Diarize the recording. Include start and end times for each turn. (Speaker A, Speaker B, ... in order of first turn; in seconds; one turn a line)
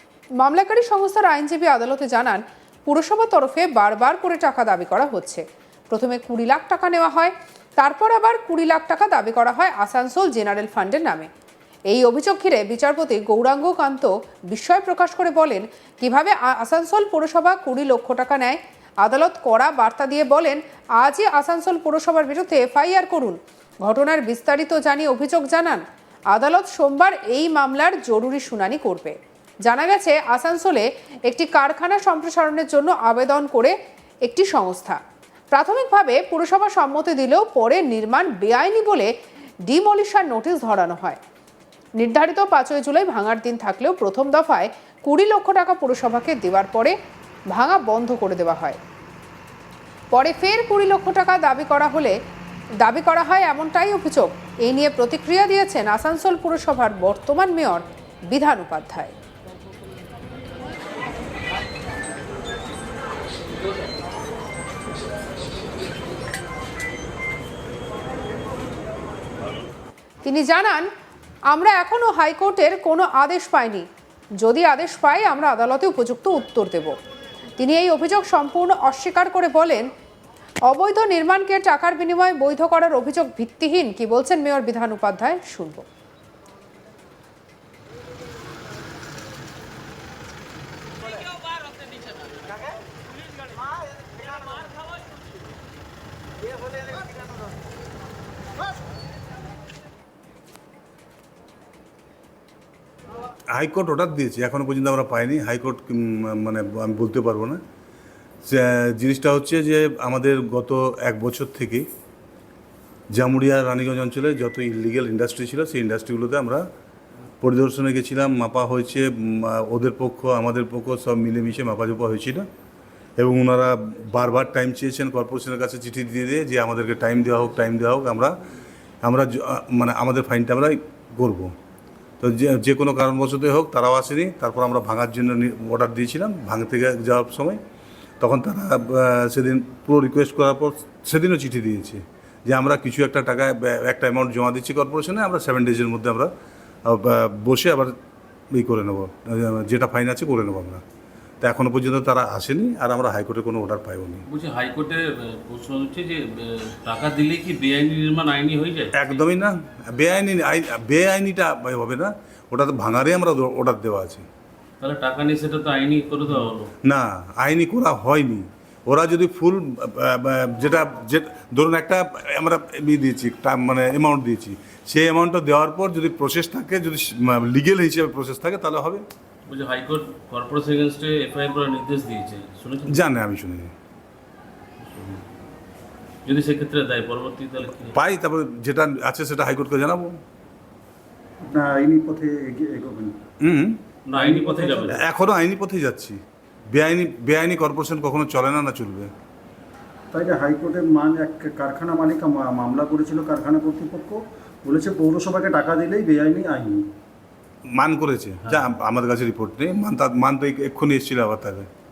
Speaker A: 0.4-11.3
Speaker A: 11.9-35.0
Speaker A: 35.5-39.1
Speaker A: 39.7-41.2
Speaker A: 42.0-46.9
Speaker A: 47.5-48.8
Speaker A: 50.1-52.1
Speaker A: 52.8-59.1
Speaker A: 70.2-70.9
Speaker A: 71.5-73.8
Speaker A: 74.4-77.0
Speaker A: 77.6-79.9
Speaker A: 80.7-85.8
Speaker B: 103.5-107.6
Speaker B: 108.5-111.8
Speaker B: 113.1-116.6
Speaker B: 117.4-122.4
Speaker B: 123.2-128.4
Speaker B: 129.0-131.5
Speaker B: 132.2-137.6
Speaker B: 138.2-146.3
Speaker B: 146.9-147.9
Speaker B: 148.5-150.8
Speaker B: 151.4-154.2
Speaker C: 154.3-158.9
Speaker B: 159.0-164.2
Speaker C: 164.8-166.7
Speaker B: 166.8-179.0
Speaker C: 179.5-183.1
Speaker B: 182.9-183.7
Speaker C: 184.8-185.2
Speaker C: 186.2-187.9
Speaker B: 187.8-190.1
Speaker D: 191.4-193.2
Speaker B: 193.4-193.8
Speaker C: 194.1-195.0
Speaker D: 194.1-194.9
Speaker B: 194.9-196.2
Speaker B: 196.7-199.1
Speaker D: 200.1-206.9
Speaker B: 207.7-211.7